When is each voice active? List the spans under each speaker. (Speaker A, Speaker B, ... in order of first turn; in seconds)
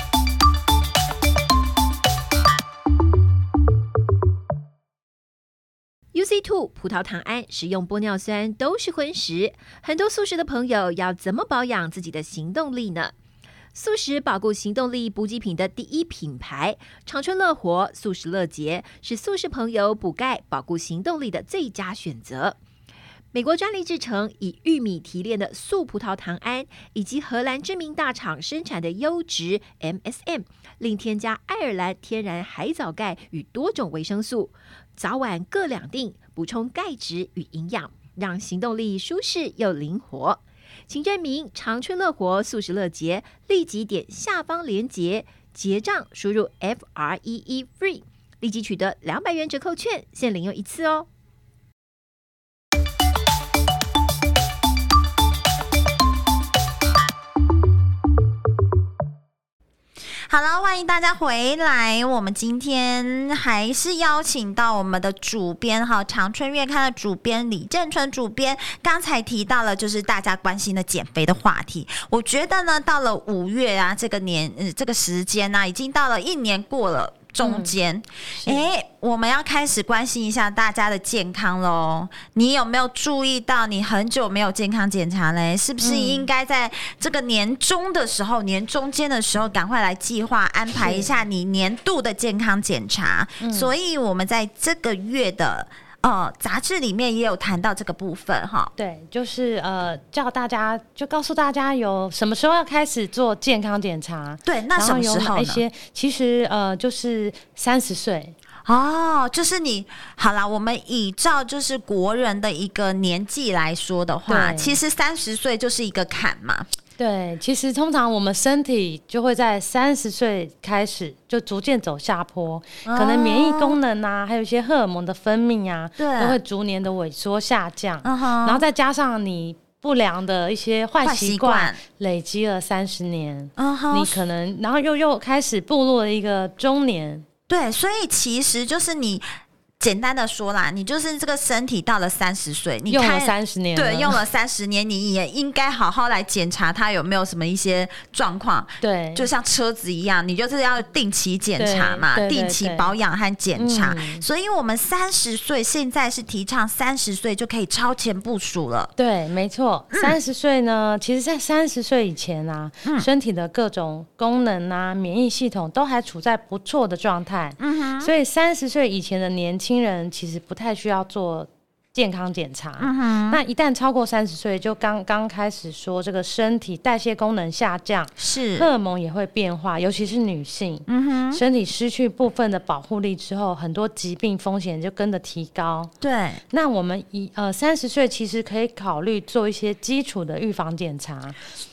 Speaker A: 6.1-13.1, 13.7-22.6, 23.3-51.1
Speaker B: 60.3-98.7, 104.4-105.6, 108.6-116.7, 122.8-123.8, 126.0-126.4, 128.0-128.6, 131.0-131.8, 133.6-134.2, 137.5-139.3, 139.8-158.9, 159.9-160.2, 167.6-168.1, 172.8-173.4, 178.2-178.7, 180.9-181.4, 186.0-186.4
Speaker C: 77.4-77.7, 78.3-78.6, 85.8-86.3, 90.8-91.1, 93.4-93.7, 98.8-108.3, 114.3-114.8, 117.0-137.2, 142.9-144.2, 148.8-149.3, 151.6-152.9, 153.6-154.2, 159.0-185.9, 186.5-191.4